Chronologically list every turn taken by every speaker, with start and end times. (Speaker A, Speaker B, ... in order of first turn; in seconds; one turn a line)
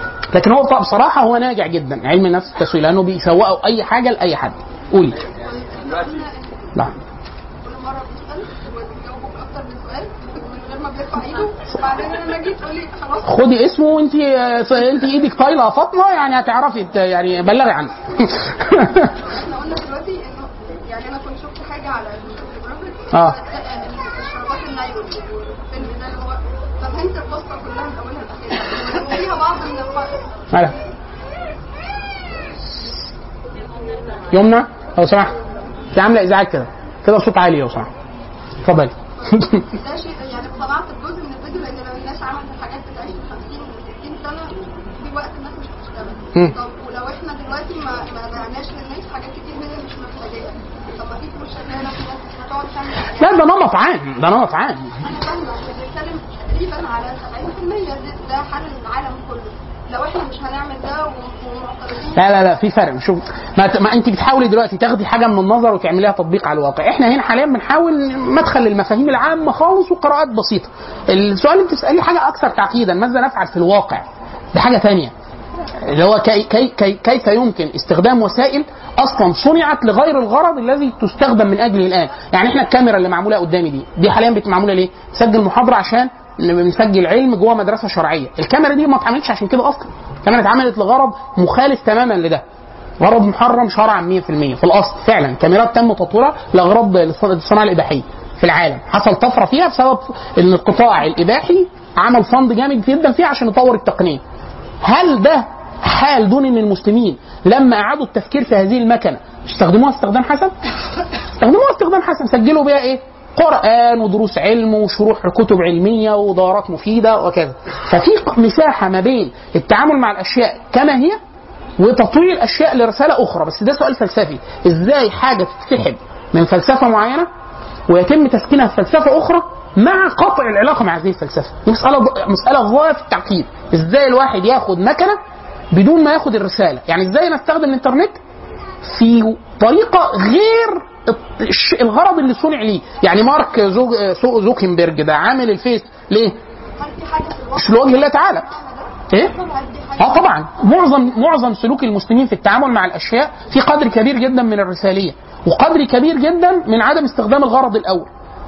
Speaker A: 0.3-5.2
Speaker B: 5.2-6.8
Speaker B: 7.6-13.4
Speaker A: 13.2-19.1
Speaker B: 19.1-30.2
Speaker A: 34.3-35.3
Speaker A: 35.9-37.9
Speaker A: 38.6-39.6
Speaker B: 39.6-53.5
Speaker A: 53.2-55.0
Speaker B: 55.0-62.5
Speaker A: 62.1-75.1
Speaker A: 75.8-92.4
Speaker A: 93.0-104.2
Speaker A: 104.8-110.5
Speaker A: 111.4-121.2
Speaker A: 121.8-127.3
Speaker A: 127.9-135.2
Speaker A: 135.7-138.2
Speaker A: 138.8-146.3
Speaker B: 146.8-150.3
Speaker A: 147.6-148.5
Speaker A: 150.0-158.1